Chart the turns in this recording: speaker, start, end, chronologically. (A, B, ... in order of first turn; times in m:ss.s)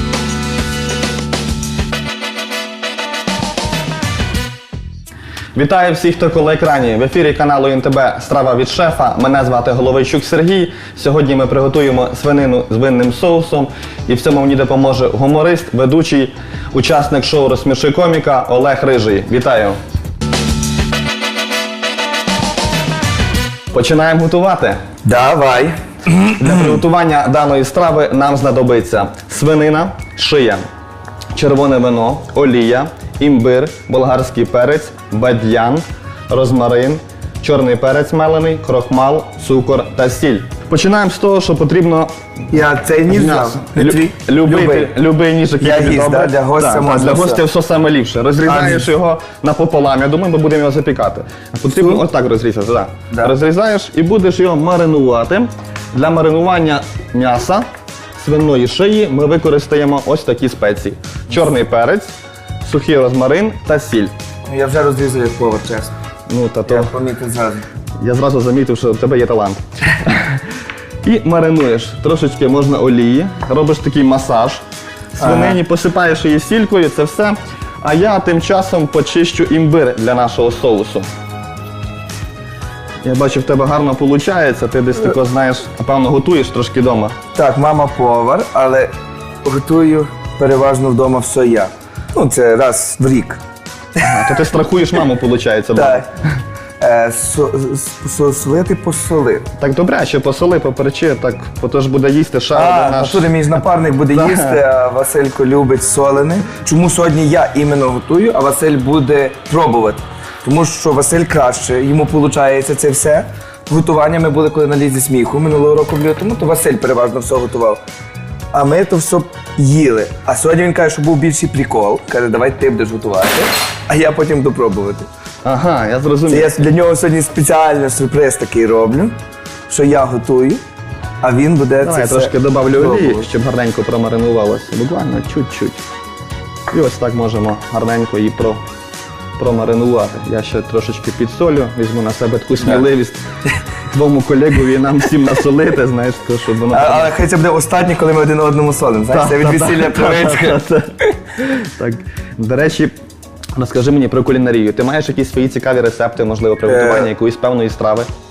0:05.6-0:19.8 A
0:23.7-0:24.8 A
0:25.0-0:26.8 B
0:26.4-0:30.6 A
0:31.3-0:42.1 A
0:42.5-0:44.9 B
0:43.1-0:57.7 A
0:45.6-0:47.4 B
0:48.4-0:48.9 B
0:58.2-1:02.1 A
1:02.6-1:04.1 A
1:04.5-1:05.9 B
1:06.3-1:06.9 A
1:06.7-1:07.6 B
1:08.0-1:10.4 A
1:11.0-1:14.6 A
1:15.2-1:21.1 A
1:15.2-1:15.6 B
1:23.0-1:27.2 A
1:27.4-1:28.9 B
1:29.4-1:33.4 B
1:34.0-1:34.4 B
1:34.0-1:36.1 A
1:35.7-1:36.1 B
1:36.8-1:39.5 B
1:39.6-1:43.4 A
1:42.5-1:57.8 B
1:44.1-1:44.6 A
1:58.5-2:05.1 B
2:05.4-2:06.5 A
2:06.3-2:09.2 B
2:09.7-2:10.6 B
2:11.2-2:13.2 B
2:11.8-2:15.8 A
2:16.7-2:18.6 A
2:19.4-2:23.2 A
2:23.9-2:27.1 A
2:26.7-2:30.6 B
2:29.1-2:32.9 A
2:33.6-2:38.1 A
2:36.6-2:37.1 B